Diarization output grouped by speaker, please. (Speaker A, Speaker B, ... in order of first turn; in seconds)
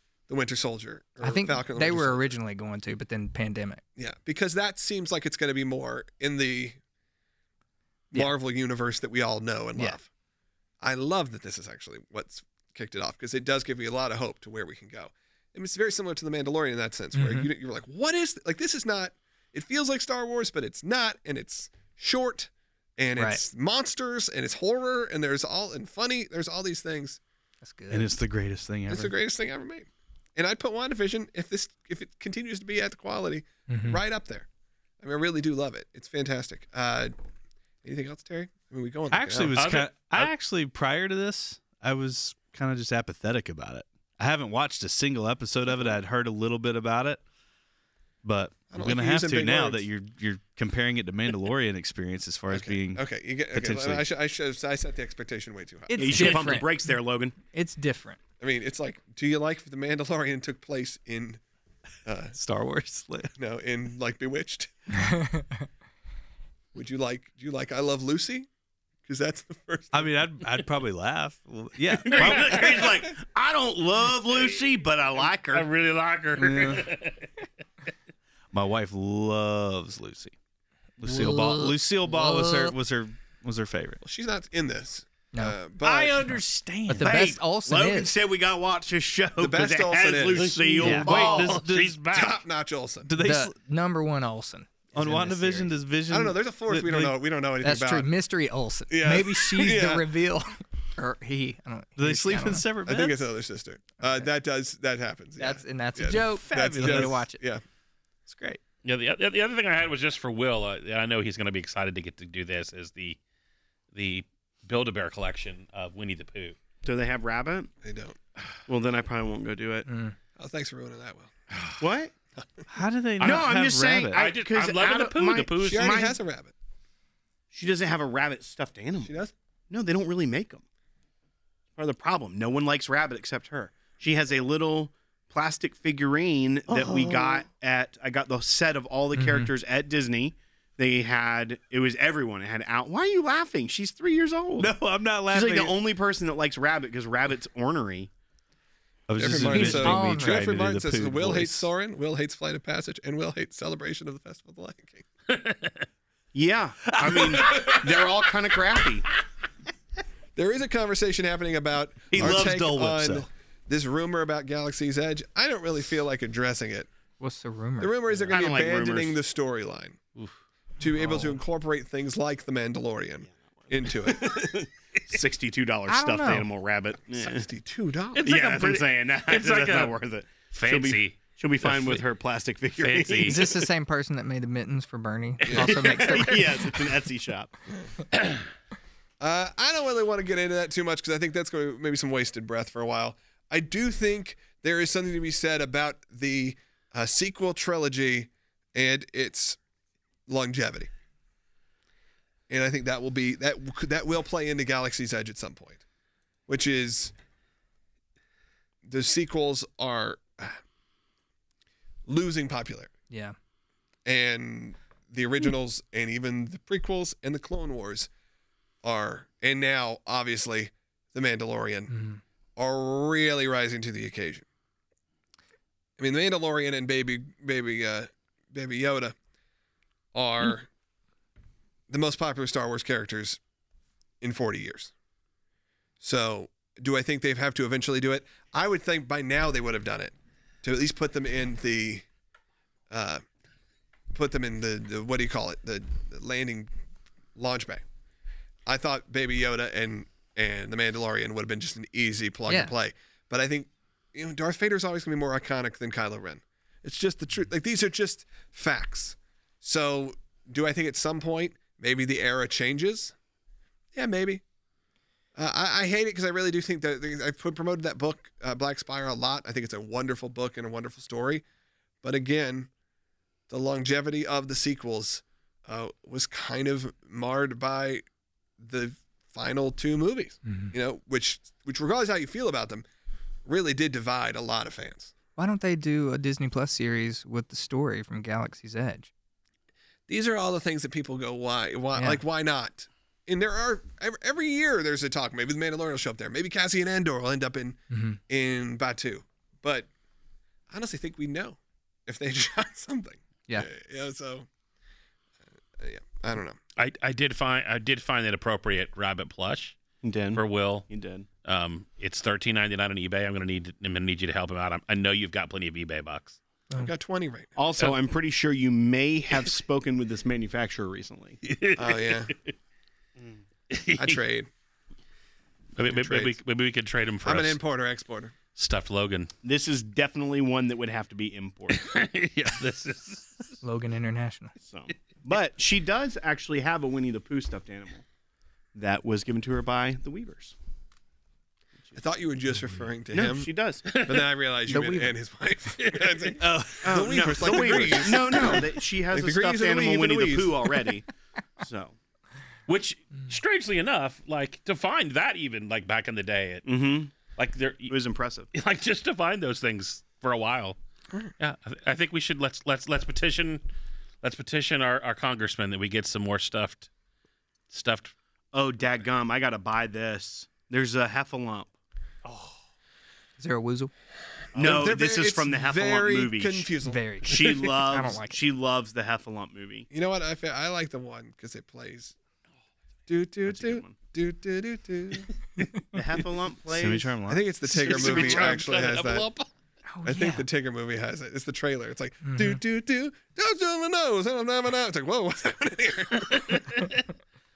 Speaker A: 0.3-2.4, 4.0-6.8, 8.1-10.1, 10.8-27.2, 28.9-34.5, 35.0-37.1, 37.8-39.6, 48.7-49.8, 52.5-56.5, 58.4-61.4, 62.0-62.4, 63.4-64.7, 66.7-68.5, 69.0-70.1, 84.0-86.3, 89.4-91.5, 92.1-93.1, 96.1-98.1, 98.9-100.1, 102.8-107.6, 117.8-118.2, 120.4-121.3, 125.6-126.5, 129.0-129.3, 149.2-155.0, 160.3-166.9, 167.8-170.0, 170.8-174.5, 177.2-178.3, 185.5-185.8, 189.2-199.6, 200.3-200.9, 202.5-205.8, 206.5-207.1, 208.8-210.6, 212.1-212.9, 214.1-218.1, 218.8-221.9, 222.6-224.4, 226.0-229.1, 230.1-230.7, 231.9-233.4, 234.2-234.9, 236.0-242.0, 242.9-243.2, 244.1-246.7, 247.3-247.8, 248.7-263.1, 263.9-264.4, 265.4-271.4, 272.0-272.7, 273.5-278.0, 278.6-282.8, 283.4-285.1, 290.1-299.9, 300.7-304.5, 305.8-306.6, 316.7-317.5, 321.8-322.3, 323.9-324.5, 325.8-326.4, 327.2-328.3, 341.9-350.8, 374.6-377.2, 379.9-382.1, 383.1-385.5, 387.2-389.3, 390.0-396.9
Speaker B: 1.2-3.8, 17.1-17.5, 27.6-28.1, 33.7-34.0, 55.9-58.2, 64.9-65.7, 81.1-82.7, 86.3-88.1, 90.8-91.1, 93.2-95.7, 97.6-102.7, 105.4-107.4, 119.8-120.2, 139.1-139.5, 149.4-150.5, 167.2-168.3, 170.9-171.3, 175.9-176.5, 183.2-186.7, 213.1-213.3, 221.9-222.2, 252.5-252.7, 280.4-280.7, 285.4-289.1, 291.9-292.2, 297.9-298.2, 333.6-334.5, 344.7-345.1, 373.4-373.9, 376.8-378.4, 389.9-390.5, 392.2-392.6
Speaker C: 27.9-29.1, 39.1-47.2, 48.2-54.1, 62.3-63.3, 69.9-72.8, 76.3-76.9, 78.5-80.3, 81.0-84.0, 85.8-87.1, 90.8-92.0, 93.0-93.5, 94.9-97.2, 102.0-103.3, 106.1-107.2, 108.3-108.6, 122.7-124.2, 144.6-145.8, 149.1-151.7, 156.9-158.3, 162.1-163.3, 346.4-346.8, 386.7-387.5
Speaker D: 39.5-40.3, 72.2-72.7, 75.5-77.3, 90.3-92.4, 108.8-113.2, 113.9-116.6, 123.2-123.5, 124.1-126.0, 155.3-155.8, 178.2-179.9, 180.5-182.0, 182.8-183.4, 306.8-309.8, 310.3-310.9, 311.4-316.4, 321.4-322.3, 323.7-324.2, 325.8-327.6, 328.6-329.3, 331.7-333.6, 343.9-344.3, 345.8-346.3, 348.2-348.6, 352.7-357.9, 358.5-360.8, 361.4-363.6, 364.2-366.9, 367.7-368.1, 387.7-389.5, 396.3-396.9
Speaker E: 55.9-57.3, 72.0-75.7, 87.0-91.5, 116.8-117.7, 118.7-119.9, 121.8-122.1, 123.2-126.2, 127.5-129.1, 129.7-130.6, 131.8-144.8, 145.3-148.1, 156.3-159.1, 168.3-169.2, 173.7-177.4, 178.2-183.6, 185.5-187.5, 310.0-311.2, 317.6-321.4, 329.4-331.9, 334.6-338.0, 338.7-340.6, 343.1-344.0, 346.8-351.0, 351.6-351.9, 356.6-357.1, 357.9-358.5, 368.5-371.7, 374.5-376.7, 377.2-379.9, 383.4-384.0, 385.9-387.1, 387.8-388.6